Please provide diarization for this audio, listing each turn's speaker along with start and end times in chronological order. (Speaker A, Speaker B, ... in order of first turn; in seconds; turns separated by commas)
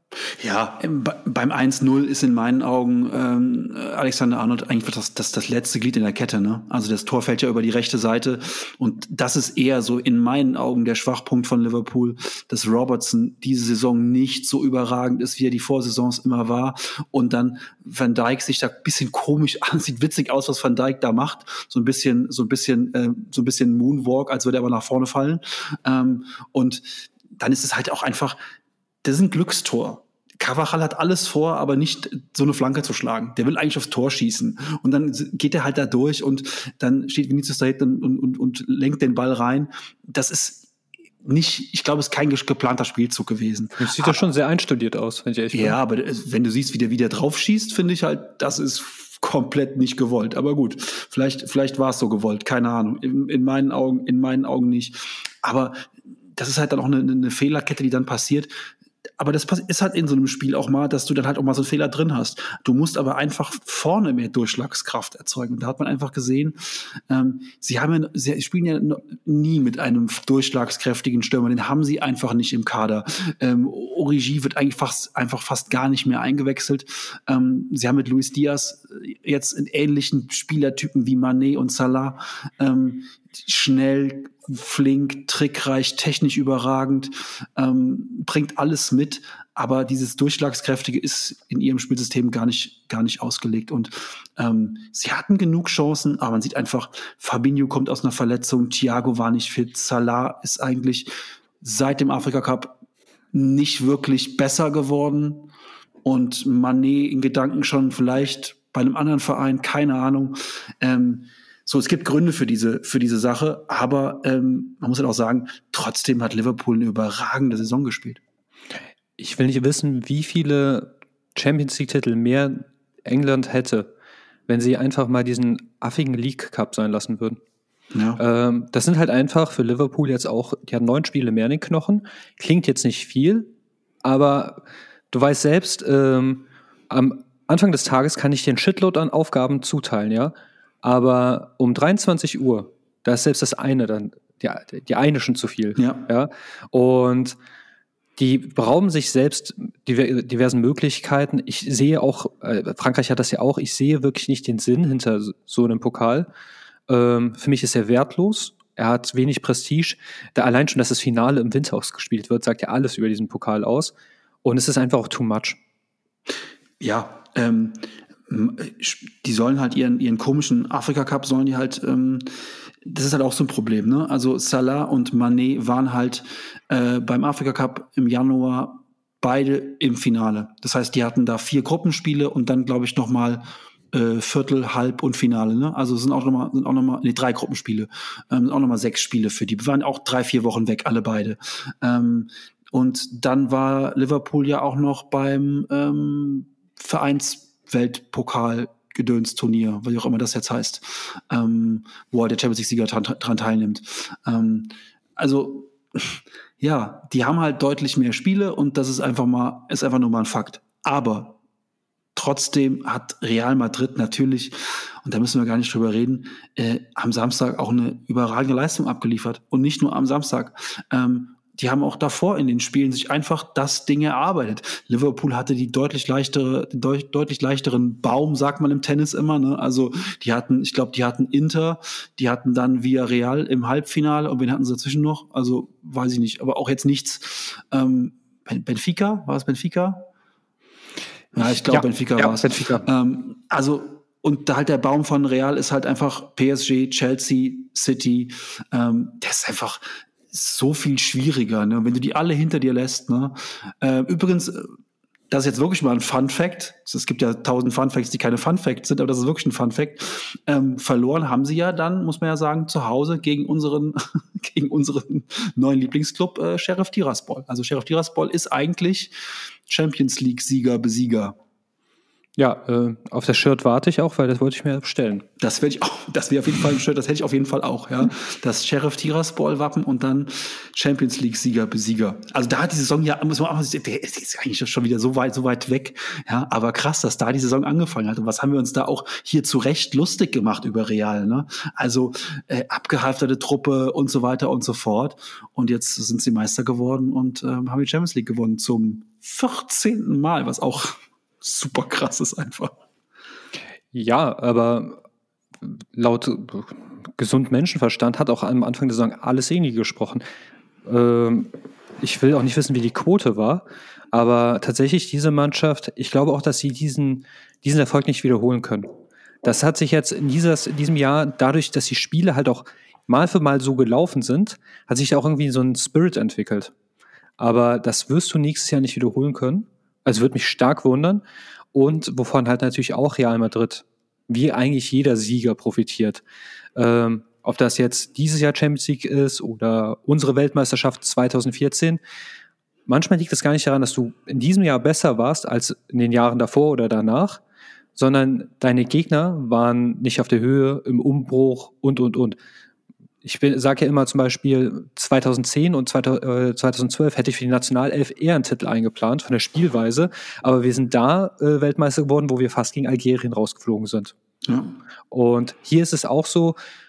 Speaker A: 0.4-28.4, Speaker A: 29.0-40.7, Speaker A: 41.2-44.3, Speaker B: 43.8-45.8, Speaker A: 45.5-58.5, Speaker A: 59.2-101.1, Speaker A: 101.6-102.8, Speaker A: 103.3-105.5, Speaker A: 106.0-118.2, Speaker B: 119.2-123.9, Speaker B: 124.5-127.4, Speaker A: 127.9-128.2, Speaker B: 128.2-133.5, Speaker B: 134.0-147.4, Speaker A: 145.8-146.0, Speaker B: 148.2-156.3, Speaker B: 156.9-163.9, Speaker B: 164.4-165.6, Speaker A: 166.8-172.3, Speaker A: 172.8-211.4, Speaker A: 212.1-240.1, Speaker A: 241.3-254.7, Speaker B: 241.4-242.8, Speaker A: 255.3-269.1, Speaker A: 269.7-271.4, Speaker B: 272.4-275.2, Speaker A: 275.4-302.8, Speaker B: 303.9-305.0, Speaker B: 305.6-310.2, Speaker B: 310.9-318.9, Speaker B: 319.4-326.7, Speaker B: 327.4-331.2, Speaker B: 331.7-336.2, Speaker B: 336.8-342.0, Speaker B: 342.9-347.4, Speaker B: 347.9-352.4, Speaker B: 353.2-364.1, Speaker A: 364.4-364.7, Speaker B: 365.1-366.6